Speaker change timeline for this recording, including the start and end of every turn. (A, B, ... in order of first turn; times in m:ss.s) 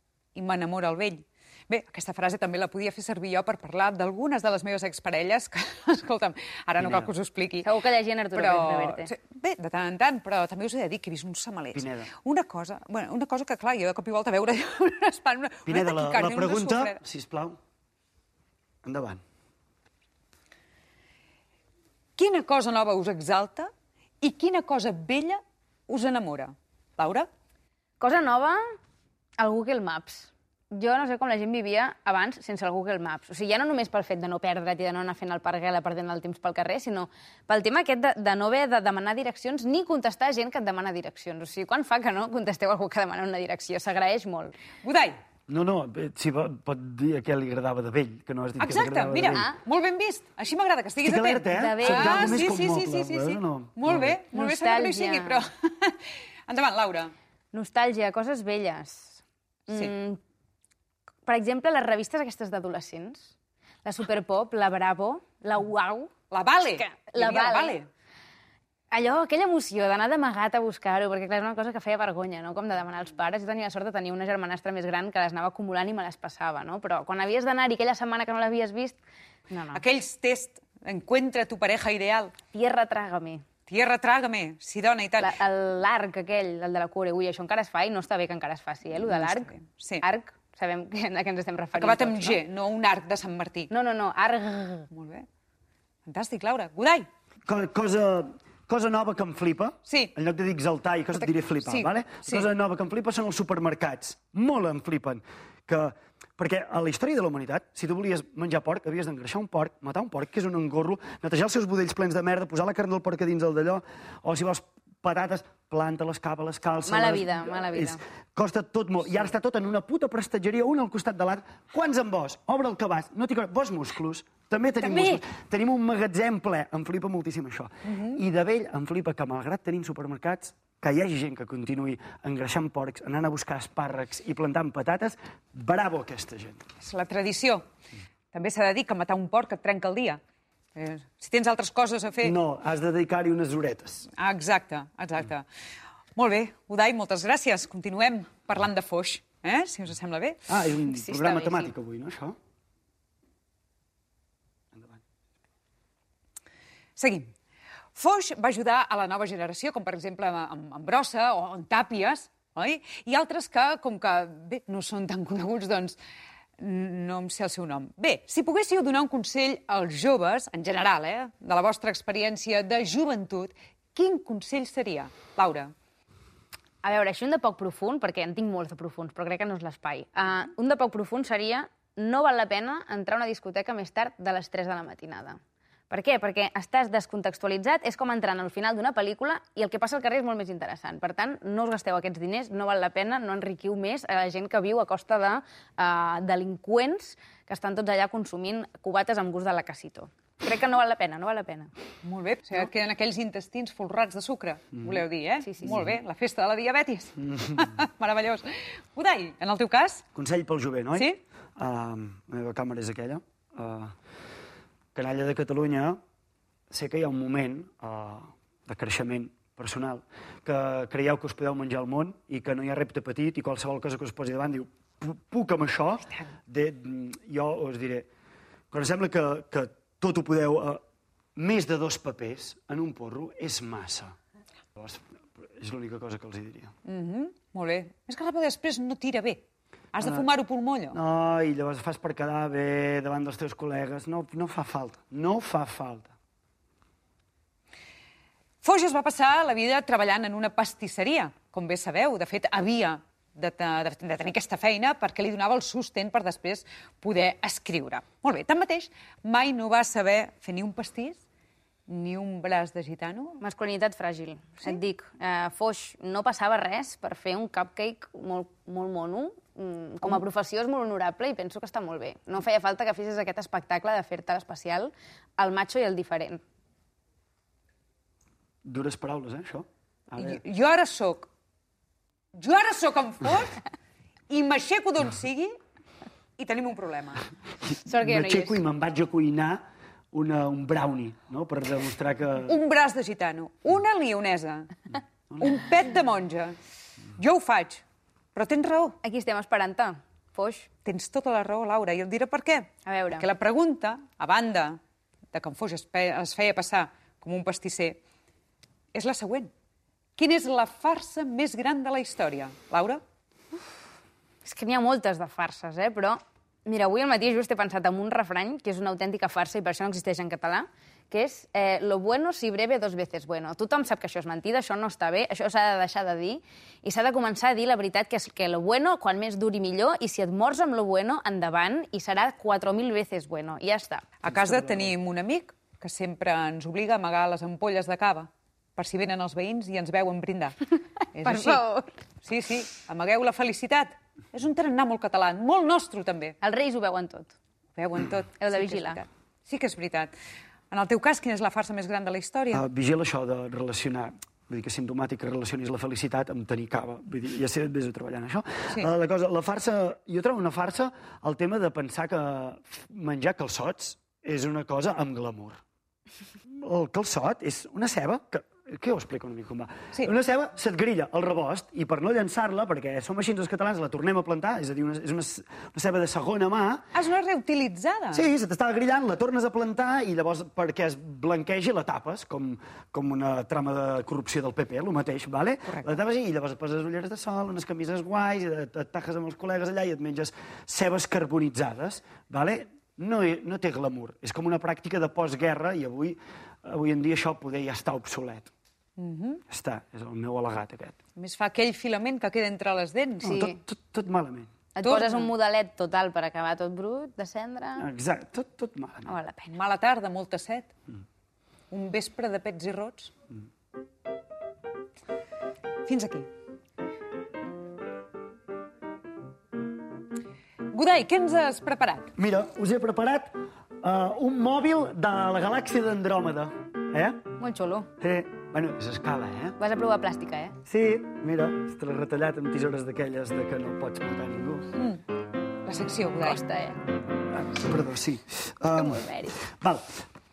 0:00.3-0:07.7 A
0:06.8-0:07.1 B
0:07.6-0:09.1 C
0:08.3-0:17.0 A
0:11.7-0:12.1 B
0:15.6-0:17.6 B
0:18.8-0:19.2 B
0:22.2-0:27.3 A
0:28.0-0:28.6 C
0:29.4-0:44.5 C
0:44.8-0:45.2 A
0:45.5-0:49.5 B
0:48.6-0:57.1 A
0:49.3-0:49.6 C
0:51.0-0:54.2 B
0:51.5-0:52.5 C
0:54.3-0:55.4 C
0:57.5-1:00.2 C
1:01.2-1:03.3 C
1:03.8-1:06.1 C
1:06.3-1:07.9 A
1:06.8-1:07.8 C
1:08.9-1:19.0 C
1:19.5-1:19.8 C
1:19.7-1:22.3 A
1:22.5-1:23.4 C
1:23.7-1:25.3 A
1:25.2-1:32.4 C
1:29.1-1:30.0 A
1:31.7-1:33.7 A
1:33.7-1:34.9 C
1:34.9-1:35.3 A
1:36.0-1:37.1 A
1:37.4-2:16.6 B
1:39.8-1:40.1 A
1:41.2-1:42.5 A
1:56.9-1:58.0 C
2:04.8-2:05.2 C
2:07.8-2:08.2 A
2:16.8-2:17.6 A
2:18.3-2:20.2 A
2:20.7-2:22.3 A
2:22.2-2:24.1 B
2:24.2-2:25.4 A
2:26.1-2:30.4 A
2:30.5-2:32.4 B
2:30.9-2:31.6 C
2:34.7-2:35.0 B
2:37.0-2:37.3 A
2:37.9-2:46.0 A
2:46.6-2:55.7 A
2:56.8-3:05.4 C
3:05.9-3:21.7 C
3:22.0-3:30.0 A
3:27.4-3:27.6 B
3:30.1-3:33.9 B
3:30.9-3:31.2 A
3:34.9-3:36.0 B
3:36.7-3:48.1 B
3:48.7-3:50.8 B
3:51.4-3:54.1 B
3:54.8-3:56.7 B
3:56.8-4:01.0 A
4:00.0-4:00.3 B
4:00.9-4:06.1 B
4:08.6-4:21.2 A
4:21.9-4:23.4 A
4:23.4-4:36.4 C
4:38.6-4:40.4 B
4:40.2-4:41.3 A
4:42.3-4:43.6 A
4:44.3-4:45.6 A
4:46.4-4:47.2 A
4:47.8-4:48.6 C
4:48.0-4:52.6 B
4:52.4-4:54.8 A
4:55.4-4:56.6 A
4:57.2-4:59.0 A
4:59.0-5:00.7 C
5:00.8-5:04.8 A
5:02.8-5:03.2 C
5:05.3-5:08.0 A
5:08.9-5:09.5 A
5:10.2-5:13.0 A
5:14.4-5:34.1 C
5:34.2-5:41.6 A
5:34.4-5:34.9 B
5:41.2-5:41.9 C
5:42.2-5:46.4 A
5:46.4-5:47.3 C
5:47.7-5:50.1 A
5:48.4-5:49.0 C
5:50.7-5:52.6 A
5:52.5-6:05.6 B
6:06.6-6:16.9 B
6:16.9-6:18.3 A
6:18.1-6:38.5 B
6:39.0-6:39.4 A
6:39.5-6:41.0 B
6:41.2-6:43.4 A
6:43.2-6:43.6 C
6:43.2-6:44.5 B
6:44.7-6:47.8 C
6:44.8-6:45.3 A
6:47.8-6:49.1 B
6:49.1-6:49.5 C
6:49.5-6:50.7 A
6:51.7-6:53.1 A
6:55.8-6:56.3 A
7:00.7-7:02.1 A
7:02.2-7:07.3 B
7:07.4-7:07.9 C
7:08.0-7:09.6 B
7:09.6-7:10.6 C
7:10.6-7:14.7 B
7:14.7-7:15.0 A
7:15.6-7:16.4 A
7:16.2-7:16.8 C
7:17.4-7:20.0 B
7:18.8-7:19.4 C